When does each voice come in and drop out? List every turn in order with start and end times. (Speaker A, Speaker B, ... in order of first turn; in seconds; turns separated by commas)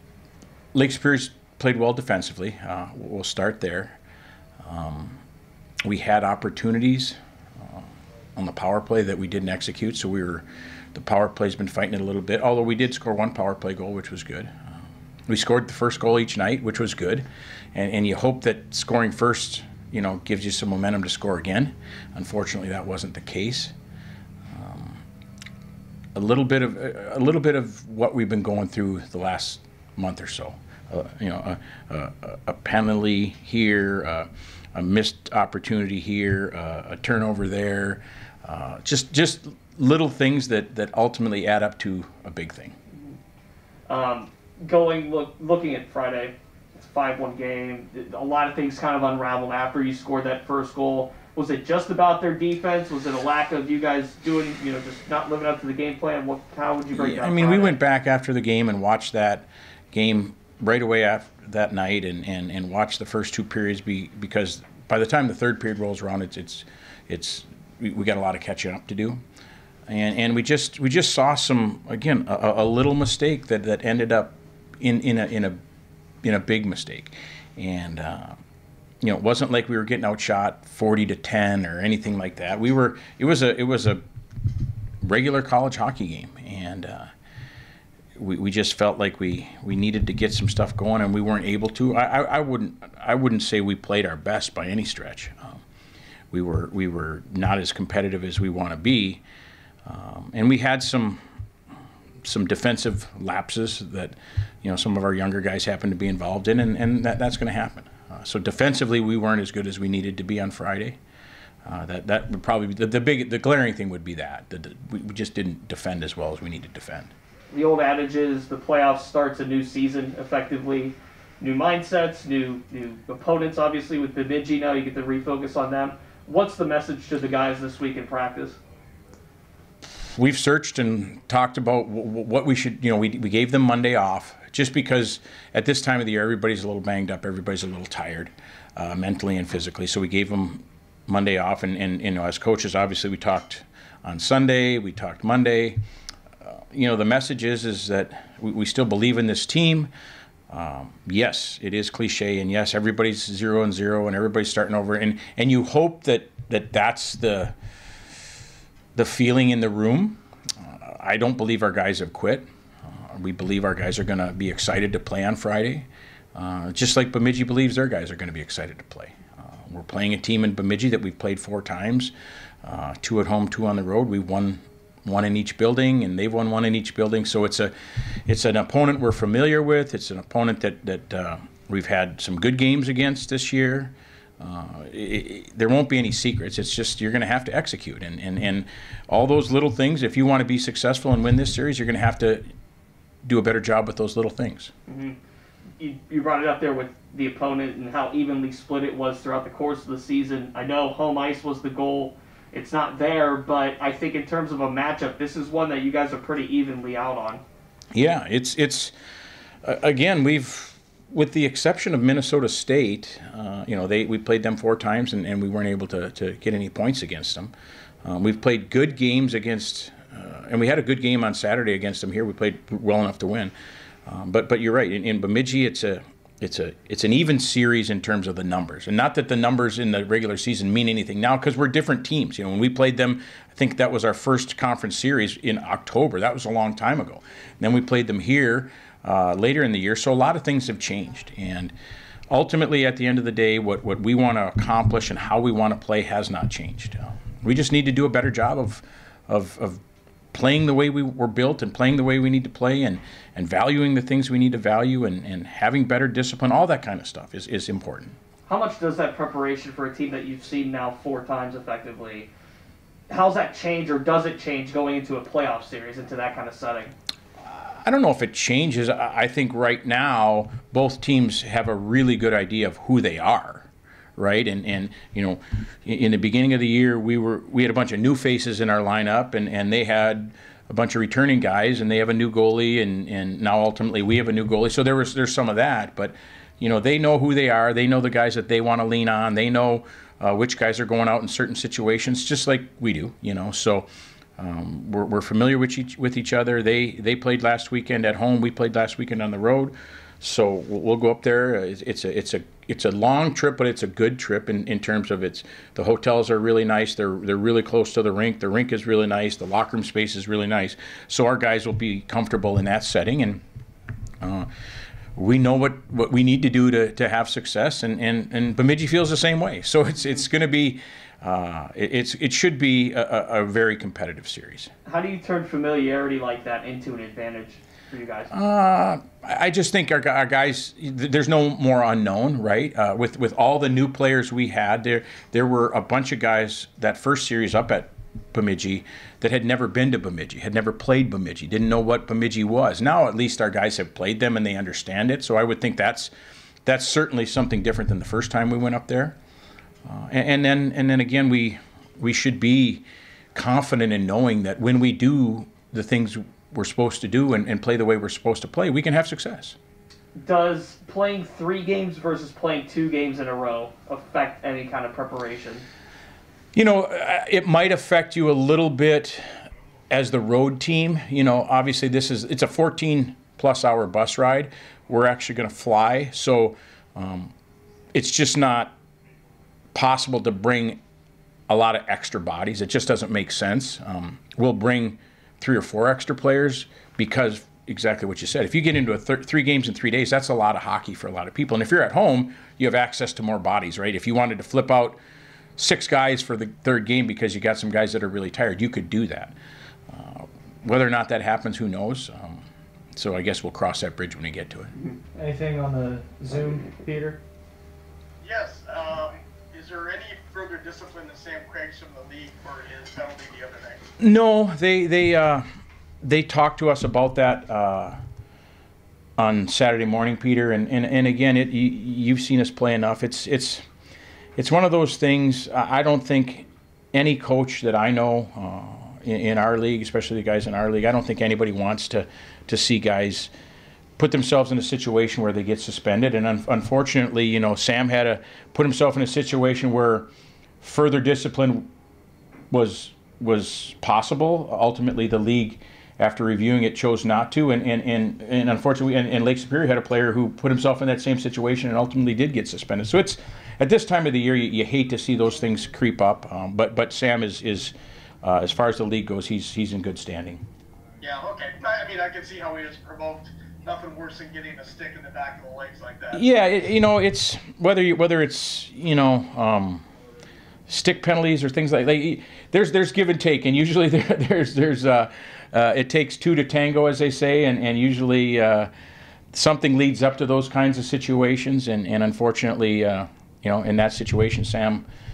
Speaker A: 0.7-4.0, Speaker A: 4.6-5.2, Speaker A: 5.8-7.8, Speaker A: 8.3-14.7, Speaker A: 15.3-23.7, Speaker A: 24.5-25.0, Speaker A: 26.1-42.7, Speaker B: 43.9-57.8, Speaker A: 56.9-69.2, Speaker A: 69.9-75.6, Speaker A: 76.2-78.4, Speaker A: 79.0-84.0, Speaker A: 85.0-87.1, Speaker A: 88.2-95.6, Speaker A: 96.3-99.2, Speaker A: 99.8-101.2, Speaker A: 102.2-111.0, Speaker A: 111.6-117.1, Speaker B: 117.5-128.6, Speaker A: 130.1-145.8, Speaker A: 146.4-149.9, Speaker A: 150.5-157.5, Speaker A: 158.9-172.1, Speaker A: 172.6-192.4, Speaker A: 193.2-194.7, Speaker B: 194.9-195.2, Speaker B: 195.8-207.4, Speaker A: 207.9-208.9, Speaker A: 209.6-217.5, Speaker A: 218.0-223.5, Speaker A: 224.1-241.7, Speaker A: 242.3-249.8, Speaker A: 250.3-258.1, Speaker B: 258.5-262.3, Speaker B: 263.1-266.9, Speaker A: 267.4-293.9, Speaker A: 294.4-313.4, Speaker A: 314.2-314.5, Speaker A: 315.1-324.7, Speaker B: 324.8-328.3, Speaker A: 328.3-346.1, Speaker A: 346.6-349.1, Speaker A: 349.9-352.8, Speaker A: 353.3-359.6, Speaker B: 360.1-365.6, Speaker A: 366.5-369.3, Speaker A: 369.9-377.3, Speaker A: 377.9-378.8, Speaker A: 379.7-380.8, Speaker A: 381.5-395.0, Speaker A: 395.6-399.3, Speaker A: 399.9-402.4, Speaker A: 402.9-404.7, Speaker C: 405.1-407.2, Speaker D: 408.2-413.8, Speaker A: 414.0-415.4, Speaker A: 416.0-418.0, Speaker A: 419.2-423.6, Speaker A: 424.4-433.3, Speaker A: 434.0-440.1, Speaker A: 440.6-441.7, Speaker A: 442.5-460.4, Speaker D: 461.0-466.2, Speaker A: 466.1-469.8, Speaker A: 470.7-478.7, Speaker A: 479.3-484.8